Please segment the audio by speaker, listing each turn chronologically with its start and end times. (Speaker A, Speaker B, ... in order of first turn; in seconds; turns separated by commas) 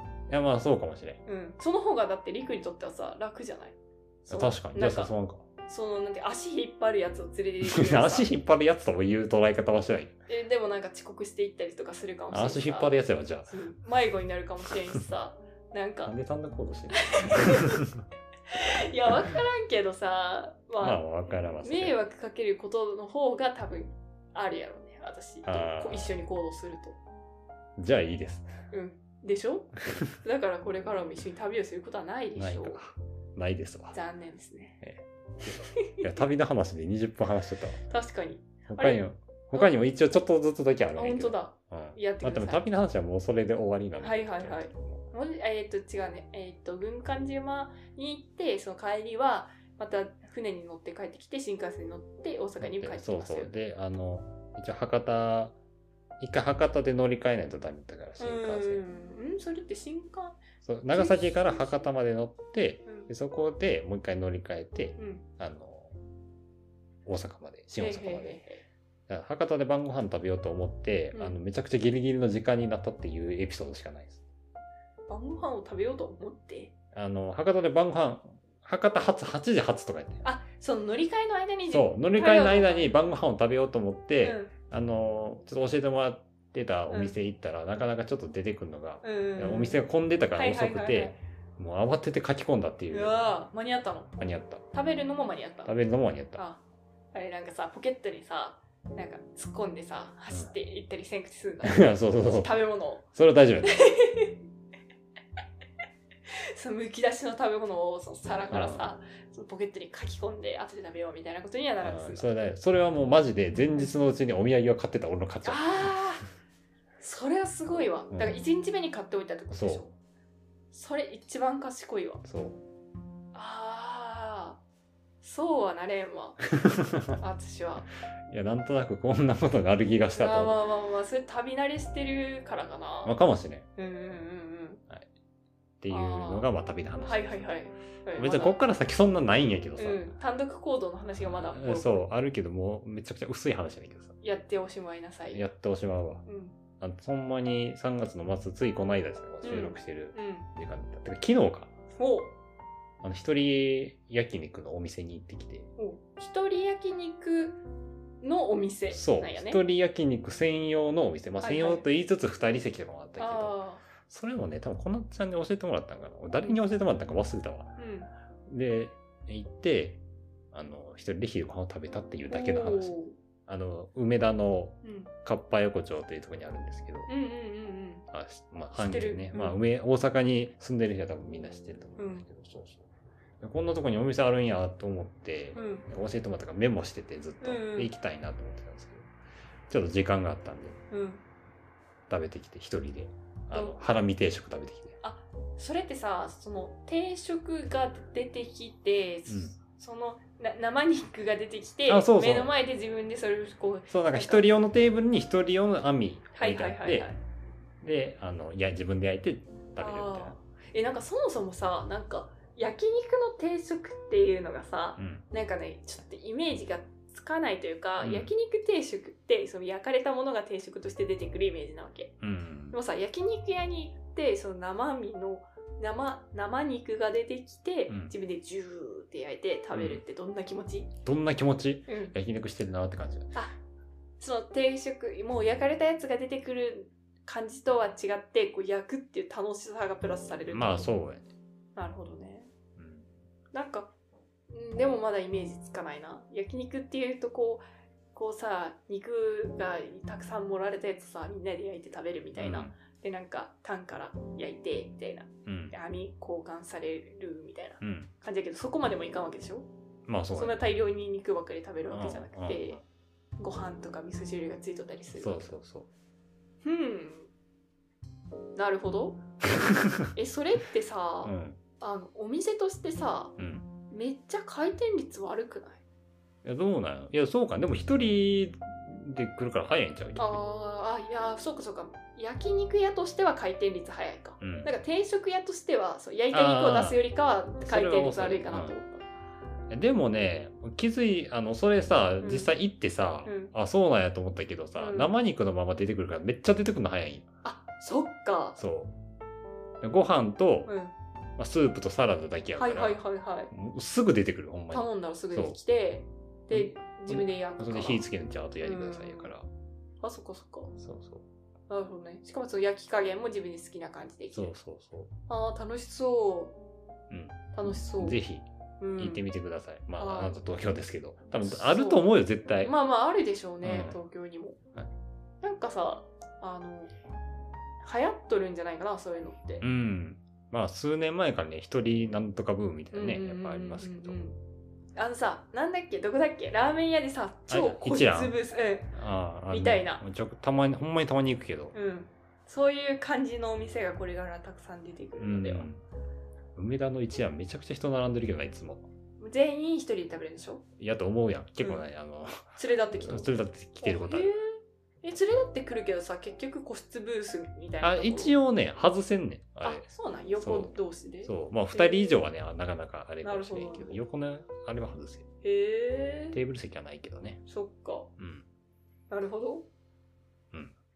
Speaker A: 0.3-1.2, Speaker B: 1.2-3.8, Speaker A: 4.3-5.4, Speaker B: 4.3-5.1, Speaker B: 5.7-8.3, Speaker A: 7.6-10.1, Speaker B: 10.3-16.1, Speaker A: 12.3-13.5, Speaker A: 16.0-18.0, Speaker B: 16.9-17.8, Speaker B: 18.5-21.0, Speaker A: 20.8-21.9, Speaker B: 21.6-27.0, Speaker A: 25.4-26.1, Speaker A: 27.8-28.5, Speaker B: 28.7-32.8, Speaker A: 32.4-33.9, Speaker B: 33.9-34.8, Speaker A: 34.8-37.8, Speaker B: 35.5-36.0, Speaker B: 37.9-39.0, Speaker A: 38.7-45.0, Speaker B: 41.0-42.6, Speaker B: 44.0-53.5, Speaker A: 52.6-55.5, Speaker A: 56.2-58.8, Speaker B: 58.2-61.9, Speaker A: 60.6-65.9, Speaker B: 62.9-63.1, Speaker B: 65.0-65.2, Speaker A: 67.0-68.4, Speaker B: 67.8-68.6, Speaker A: 69.1-74.2, Speaker B: 71.1-71.4, Speaker B: 75.1-76.7, Speaker A: 76.9-80.2, Speaker B: 80.2-82.9, Speaker A: 81.7-93.2, Speaker B: 84.2-84.5, Speaker B: 86.9-87.2, Speaker B: 89.0-89.8, Speaker B: 90.3-91.2, Speaker B: 92.9-94.1, Speaker A: 94.2-94.6, Speaker B: 94.7-95.7, Speaker A: 95.6-96.4, Speaker B: 96.3-96.6, Speaker B: 97.1-103.0, Speaker A: 101.6-102.5, Speaker A: 103.1-103.8, Speaker B: 103.6-104.3, Speaker B: 106.3-112.3, Speaker A: 108.5-108.9, Speaker A: 111.8-115.9, Speaker B: 115.4-116.2, Speaker B: 117.0-119.9, Speaker A: 118.1-118.4, Speaker A: 119.5-119.8, Speaker B: 120.7-122.2, Speaker A: 122.2-122.6, Speaker B: 123.3-124.6, Speaker B: 125.2-126.4, Speaker A: 126.6-127.2, Speaker B: 127.2-127.9, Speaker A: 128.3-130.6, Speaker B: 130.1-133.2, Speaker A: 133.0-133.7, Speaker B: 133.8-134.8, Speaker A: 135.8-137.6, Speaker B: 135.9-136.5, Speaker B: 137.0-138.6, Speaker A: 138.1-140.1, Speaker B: 139.8-142.1, Speaker A: 141.2-144.1, Speaker B: 144.2-145.5, Speaker A: 145.3-146.2, Speaker B: 146.2-146.5, Speaker A: 146.8-151.7, Speaker B: 149.4-150.5, Speaker B: 151.9-152.3, Speaker A: 153.0-155.7, Speaker B: 155.8-157.6, Speaker B: 158.2-159.6, Speaker A: 158.9-167.7, Speaker B: 161.4-161.8, Speaker B: 163.2-163.8, Speaker B: 167.8-168.1, Speaker A: 168.5-170.0, Speaker A: 170.5-177.1, Speaker B: 172.3-173.2, Speaker B: 174.8-175.1, Speaker B: 177.1-178.0, Speaker A: 178.1-182.8, Speaker B: 178.7-179.6, Speaker B: 182.0-182.2, Speaker A: 183.4-189.1, Speaker B: 185.5-185.9, Speaker B: 187.4-187.9, Speaker A: 189.7-190.8, Speaker B: 190.9-191.2, Speaker A: 192.1-195.0, Speaker B: 193.5-193.8, Speaker B: 195.0-204.4, Speaker A: 199.3-199.6, Speaker A: 201.9-202.5, Speaker A: 203.9-207.1, Speaker B: 206.3-207.2, Speaker A: 207.8-210.3, Speaker B: 209.8-222.1, Speaker A: 215.0-215.2, Speaker A: 218.0-218.3, Speaker A: 222.2-222.8, Speaker B: 222.7-230.9, Speaker A: 227.9-228.1, Speaker A: 229.7-230.0, Speaker A: 231.0-233.3, Speaker B: 231.9-232.1, Speaker B: 234.2-240.9, Speaker A: 240.5-241.2, Speaker B: 241.8-242.5, Speaker A: 242.8-243.1, Speaker B: 243.5-243.9, Speaker B: 244.5-259.7, Speaker A: 252.3-252.7, Speaker A: 255.4-255.7, Speaker A: 257.8-258.1, Speaker A: 260.1-260.6, Speaker B: 260.3-262.8, Speaker A: 261.9-262.8, Speaker B: 263.4-265.5, Speaker A: 265.1-265.9, Speaker B: 266.6-267.3, Speaker B: 268.6-269.2, Speaker A: 269.5-270.1, Speaker B: 270.1-273.3, Speaker A: 271.2-271.6, Speaker A: 273.4-273.7, Speaker B: 273.9-275.8, Speaker A: 276.4-280.4, Speaker B: 280.1-289.1, Speaker A: 284.4-284.7, Speaker A: 286.3-287.0, Speaker A: 287.6-288.8, Speaker A: 289.7-297.3, Speaker B: 292.2-292.5, Speaker B: 293.2-293.5, Speaker B: 294.8-295.1, Speaker B: 297.4-298.6, Speaker A: 298.6-298.9, Speaker A: 299.8-300.7, Speaker B: 300.6-300.9, Speaker A: 301.4-303.0, Speaker B: 302.6-303.5, Speaker A: 303.5-305.6, Speaker B: 304.7-308.0, Speaker A: 306.5-309.5, Speaker B: 308.6-309.3, Speaker B: 310.0-310.7, Speaker A: 310.8-311.2, Speaker B: 311.7-314.5, Speaker A: 314.3-315.1, Speaker B: 315.3-316.6, Speaker A: 317.1-322.7, Speaker B: 317.5-318.2, Speaker B: 318.8-319.2, Speaker B: 320.0-320.4, Speaker B: 321.4-324.6, Speaker A: 323.6-324.0, Speaker B: 325.4-326.9, Speaker B: 327.8-329.6, Speaker A: 329.6-334.2, Speaker B: 332.9-334.4, Speaker B: 334.9-338.9, Speaker A: 337.5-338.4, Speaker A: 338.9-341.7, Speaker B: 339.5-340.0, Speaker B: 341.7-345.7, Speaker A: 345.2-345.8, Speaker A: 346.6-348.9, Speaker B: 349.2-350.6, Speaker A: 350.8-354.3, Speaker B: 351.6-351.9, Speaker B: 352.5-358.3, Speaker A: 357.8-359.9, Speaker B: 359.6-362.2, Speaker A: 360.4-365.3, Speaker B: 363.2-364.0, Speaker B: 365.4-366.4, Speaker A: 366.3-367.4, Speaker B: 367.5-368.1, Speaker A: 368.2-368.4, Speaker B: 369.1-369.7